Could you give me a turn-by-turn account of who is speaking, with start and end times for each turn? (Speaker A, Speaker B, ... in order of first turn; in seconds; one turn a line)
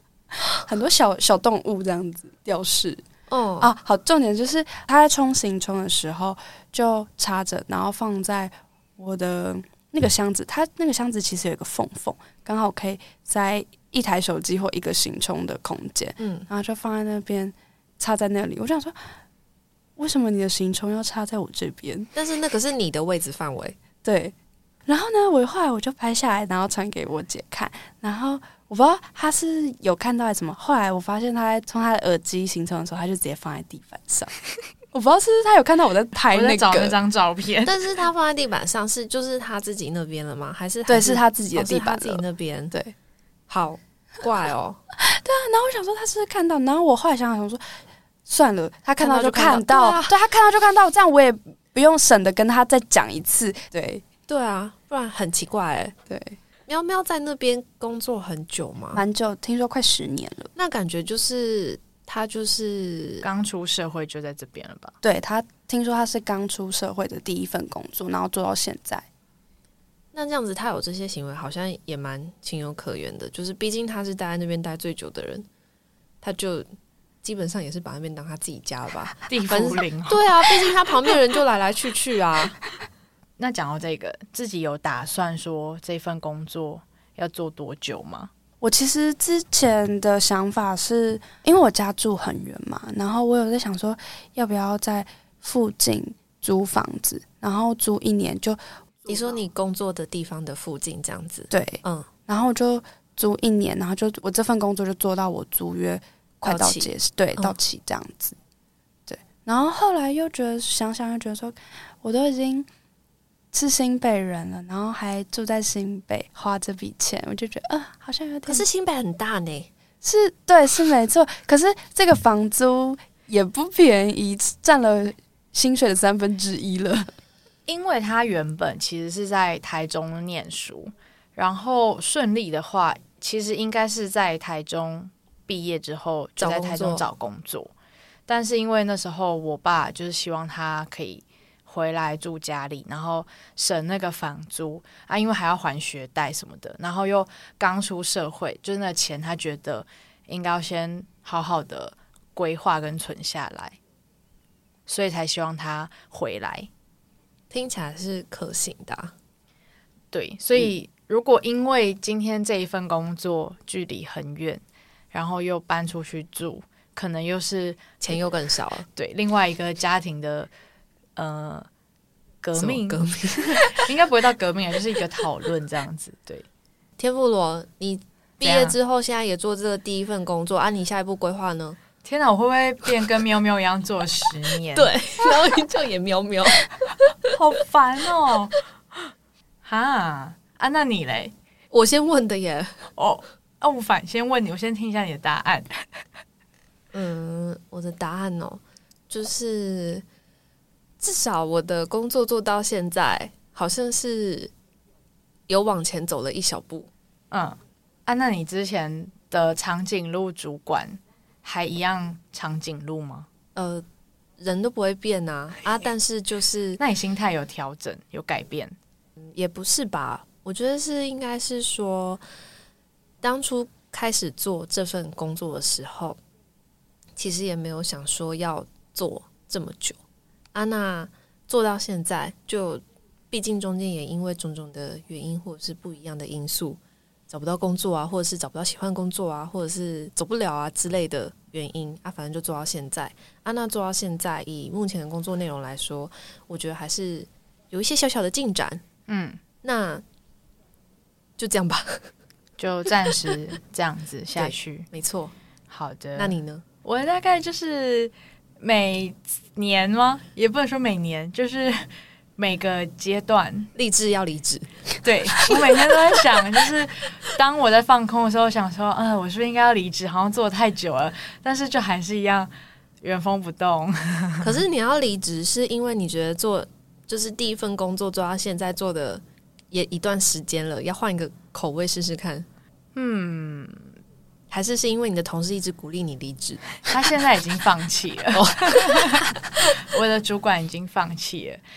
Speaker A: 0.4-3.0
Speaker B: 3.3-3.7
Speaker A: 3.6-18.9
Speaker B: 16.2-16.4
Speaker A: 20.0-22.1
Speaker B: 22.1-23.8
Speaker A: 24.0-24.3
Speaker A: 24.9-34.4
Speaker A: 34.9-37.0
Speaker C: 36.3-37.8
Speaker B: 37.6-42.7
Speaker A: 40.9-42.9
Speaker B: 43.5-44.8
Speaker A: 45.0-47.6
Speaker A: 48.3-54.0
Speaker B: 49.0-50.1
Speaker B: 54.3-55.9
Speaker A: 56.1-56.4
Speaker B: 56.7-59.0
Speaker A: 58.9-60.5
Speaker B: 60.5-63.2
Speaker C: 63.2-64.9
Speaker A: 65.0-69.0
Speaker B: 70.1-75.5
Speaker B: 76.2-76.7
Speaker B: 77.2-82.6
Speaker C: 79.3-80.5
Speaker C: 83.4-88.3
Speaker A: 88.6-98.6
Speaker B: 99.1-102.1
Speaker A: 101.5-108.3
Speaker B: 106.4-107.5
Speaker A: 109.1-112.7
Speaker A: 113.5-118.6
Speaker B: 118.5-119.7
Speaker A: 120.0-127.1
Speaker C: 127.7-137.7
Speaker B: 136.4-137.1
Speaker C: 138.3-153.8
Speaker C: 154.9-156.7
Speaker B: 157.5-159.1
Speaker C: 160.1-168.0
Speaker B: 168.0-168.9
Speaker C: 168.9-170.5
Speaker C: 171.2-171.7
Speaker C: 172.4-176.4
Speaker B: 172.6-173.9
Speaker B: 177.0-181.8
Speaker C: 178.4-178.8
Speaker C: 182.0-184.9
Speaker B: 184.7-187.1
Speaker C: 187.3-188.6
Speaker C: 189.6-191.3
Speaker B: 191.7-192.9
Speaker C: 193.0-195.8
Speaker B: 196.9-200.0
Speaker B: 201.0-204.5
Speaker B: 205.5-206.9
Speaker C: 207.3-213.3
Speaker B: 213.5-213.8
Speaker B: 214.4-216.8
Speaker C: 216.8-218.7
Speaker B: 219.2-222.2
Speaker B: 223.2-226.2
Speaker B: 227.2-230.0
Speaker B: 230.5-248.8
Speaker C: 249.1-249.4
Speaker B: 249.6-250.0
Speaker B: 251.4-252.1
Speaker C: 252.6-254.9
Speaker B: 252.9-253.3
Speaker B: 254.3-255.3
Speaker C: 255.7-261.9
Speaker B: 256.1-256.6
Speaker C: 262.4-263.7
Speaker B: 263.8-264.7
Speaker C: 265.0-272.5
Speaker C: 273.0-274.5
Speaker B: 274.4-282.5
Speaker C: 282.9-283.9
Speaker B: 284.5-286.7
Speaker C: 286.9-291.6
Speaker B: 288.3-289.4